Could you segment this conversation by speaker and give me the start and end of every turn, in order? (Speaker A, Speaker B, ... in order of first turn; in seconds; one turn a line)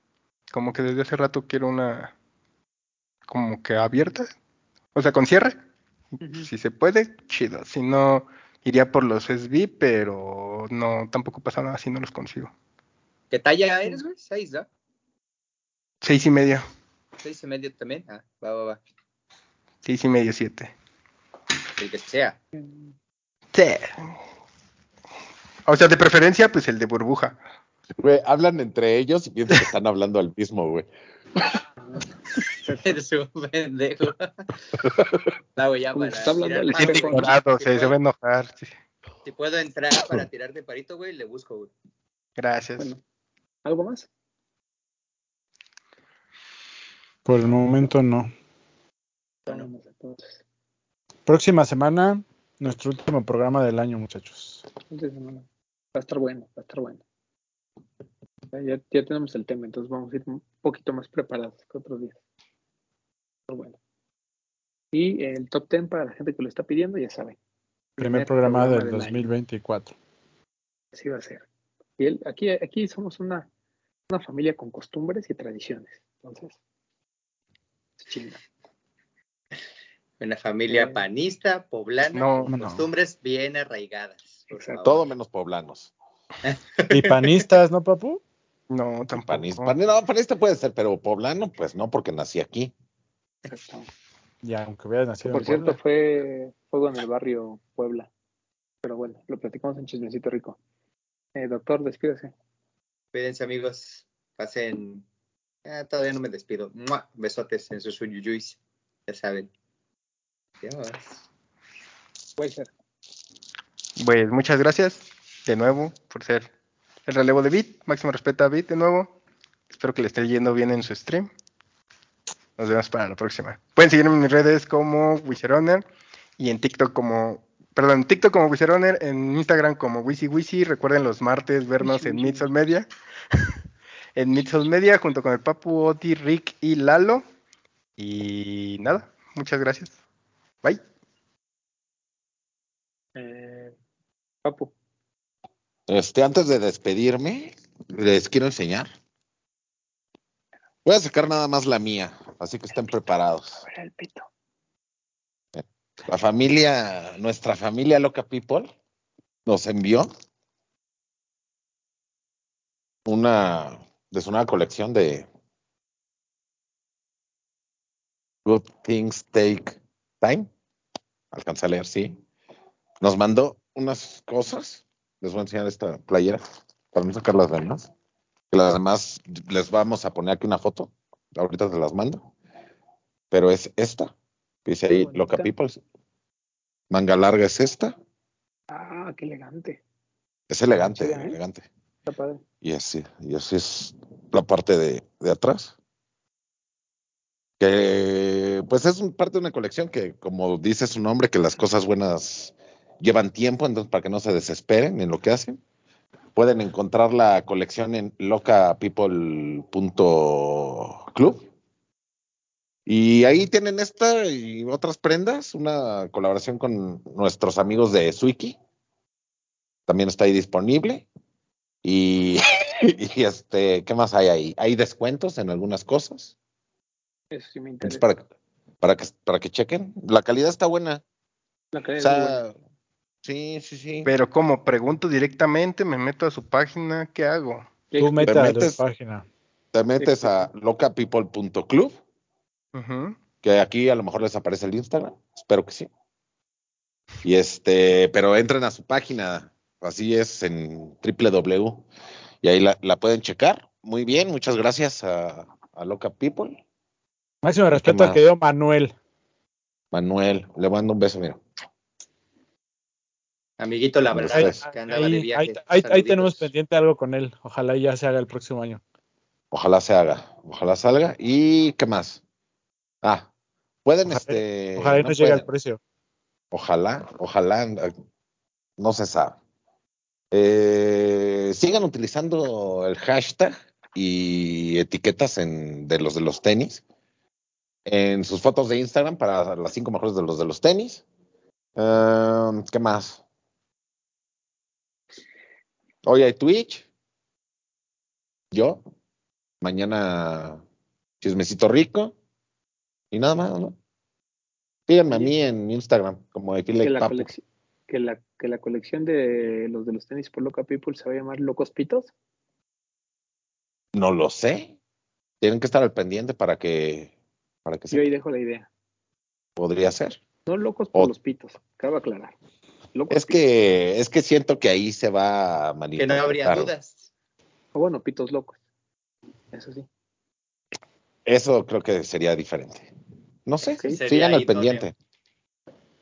Speaker A: 0.5-2.1
Speaker A: 3.3-4.3
Speaker A: 4.9-5.6
Speaker B: 6.2-6.5
Speaker A: 6.3-12.5
Speaker C: 13.3-14.7
Speaker A: 16.0-16.6
Speaker C: 17.2-18.8
Speaker A: 19.8-20.7
Speaker C: 21.8-22.4
Speaker B: 22.5-22.9
Speaker A: 23.5-24.1
Speaker A: 25.6-27.4
Speaker D: 28.0-30.9
Speaker B: 31.8-33.0
Speaker C: 32.8-34.5
Speaker C: 35.5-38.0
Speaker B: 35.9-37.4
Speaker A: 36.7-38.7
Speaker C: 39.2-41.7
Speaker A: 42.4-42.9
Speaker B: 43.6-44.1
Speaker E: 47.2-48.3
Speaker B: 49.5-50.4
Speaker E: 51.2-54.6
Speaker B: 54.9-57.0
Speaker B: 58.5-62.1
Speaker B: 63.5-63.8
Speaker B: 64.9-67.4
Speaker B: 68.0-69.2
Speaker E: 68.0-69.9
Speaker B: 70.9-71.4
Speaker B: 72.0-73.5
Speaker B: 74.1-76.5
Speaker B: 78.0-78.4
Speaker C: 80.2-85.0
Speaker B: 80.7-81.0
Speaker A: 82.1-82.5
Speaker E: 82.5-82.9
Speaker B: 84.5-85.0
Speaker D: 84.8-85.9
Speaker C: 86.4-87.4
Speaker E: 86.9-88.2
Speaker A: 88.7-89.7
Speaker D: 89.1-92.7
Speaker B: 93.5-93.9
Speaker E: 94.4-95.8
Speaker B: 95.2-98.1
Speaker B: 98.8-100.6
Speaker B: 101.3-102.3
Speaker C: 103.1-105.0
Speaker C: 105.6-109.5
Speaker C: 110.6-111.2
Speaker B: 112.4-112.7
Speaker A: 114.0-116.5
Speaker A: 117.0-119.1
Speaker A: 119.7-121.3
Speaker A: 122.6-125.8
Speaker A: 126.4-132.9
Speaker B: 131.8-132.5
Speaker A: 134.2-137.2
Speaker A: 138.0-139.9
Speaker B: 143.1-143.8
Speaker B: 144.4-144.7
Speaker D: 145.9-148.9
Speaker D: 150.8-153.6
Speaker B: 153.6-154.3
Speaker D: 155.5-158.7
Speaker D: 159.4-160.1
Speaker D: 163.1-165.2
Speaker D: 168.4-170.5
Speaker D: 171.3-172.2
Speaker D: 173.0-177.9
Speaker D: 178.5-182.2
Speaker D: 183.3-184.1
Speaker D: 184.6-185.8
Speaker B: 184.9-185.5
Speaker D: 186.9-187.9
Speaker B: 188.7-189.8
Speaker D: 190.5-191.7
Speaker B: 190.7-191.4
Speaker B: 192.1-192.4
Speaker D: 192.6-195.7
Speaker D: 197.6-205.6
Speaker D: 206.3-211.4
Speaker D: 212.8-218.6
Speaker D: 219.9-221.0
Speaker D: 221.8-226.3
Speaker B: 227.3-228.0
Speaker D: 227.8-228.2
Speaker D: 228.8-231.0
Speaker B: 231.7-232.4
Speaker D: 232.0-232.6
Speaker D: 233.2-234.1
Speaker A: 234.0-237.7
Speaker B: 237.9-238.4
Speaker E: 238.0-239.2
Speaker D: 238.2-238.8
Speaker D: 239.7-241.9
Speaker B: 240.0-240.5
Speaker A: 242.7-243.2
Speaker D: 243.4-245.9
Speaker D: 247.2-251.8
Speaker D: 252.4-256.6
Speaker E: 257.4-258.9
Speaker D: 257.7-258.2
Speaker D: 259.9-261.4
Speaker C: 263.6-266.5
Speaker D: 264.1-264.6
Speaker E: 264.3-268.8
Speaker D: 269.5-272.2
Speaker D: 273.0-273.3
Speaker D: 273.8-275.5
Speaker E: 274.1-275.8
Speaker D: 276.5-277.9
Speaker D: 278.8-279.4
Speaker D: 280.3-286.8
Speaker D: 287.9-291.0
Speaker D: 291.8-293.2
Speaker D: 296.0-296.9
Speaker D: 298.5-298.8
Speaker D: 299.6-300.6
Speaker D: 301.2-302.1
Speaker D: 303.1-303.8
Speaker D: 304.9-307.3
Speaker B: 306.8-312.1
Speaker D: 313.9-314.8
Speaker D: 315.4-317.1
Speaker D: 317.6-318.0
Speaker B: 317.9-318.7
Speaker D: 319.6-320.2
Speaker B: 320.5-322.3
Speaker B: 322.9-323.4
Speaker D: 323.1-326.7
Speaker C: 326.0-327.1
Speaker B: 327.7-328.6
Speaker B: 329.5-329.9
Speaker D: 331.2-332.9
Speaker D: 333.4-334.9
Speaker B: 333.7-334.0
Speaker C: 333.9-334.9